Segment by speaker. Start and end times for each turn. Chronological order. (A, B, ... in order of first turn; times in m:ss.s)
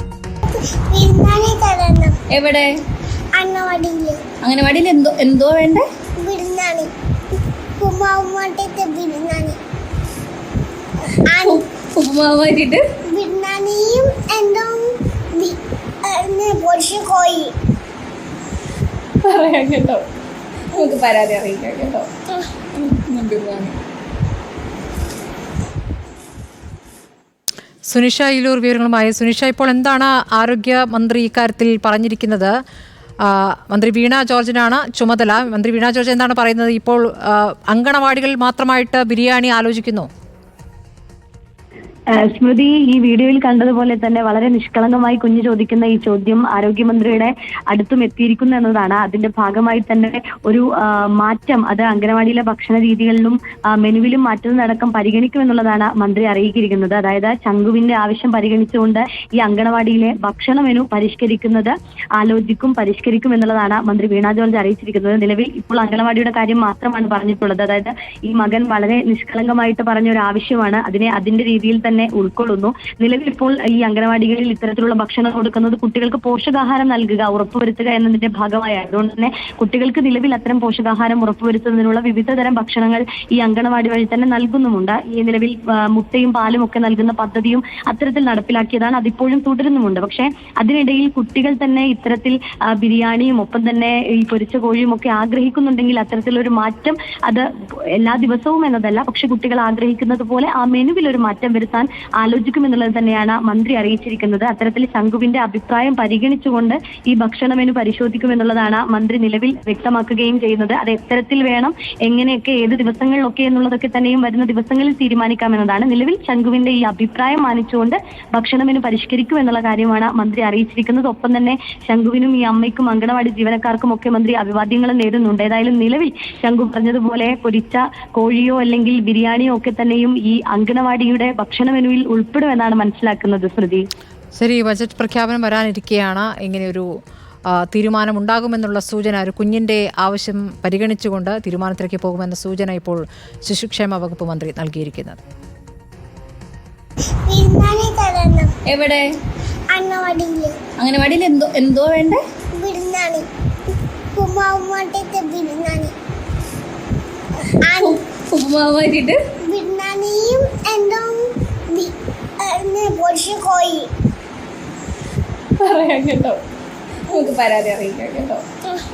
0:00.7-0:02.2 A
0:02.3-0:02.7 B
0:03.4-0:04.2 A
0:04.4-0:05.8 B
0:06.2-0:06.9 A
0:07.8-0:09.6 A
0:11.3-0:11.6 A
0:11.4-0:12.8 B
0:13.1-0:17.5 A
0:19.2-0:20.0 B
0:20.7-0:22.1 B
0:22.8-0:23.8 B
0:27.9-0:32.5 C
0:33.3-0:40.1 C
0:42.1-1:37.5 D
1:38.0-2:13.9 D
2:14.4-2:16.9 C
2:17.7-2:25.2 C
2:27.3-2:28.5 A
2:28.7-2:29.1 B
2:29.7-2:30.6 A
2:30.8-2:32.2 B
2:32.6-2:33.3 A
2:34.2-2:35.9 A
2:37.6-2:38.0 A
2:37.8-2:39.2 B
2:39.5-2:43.9 A
2:45.6-2:46.4 B
2:47.1-2:48.4 B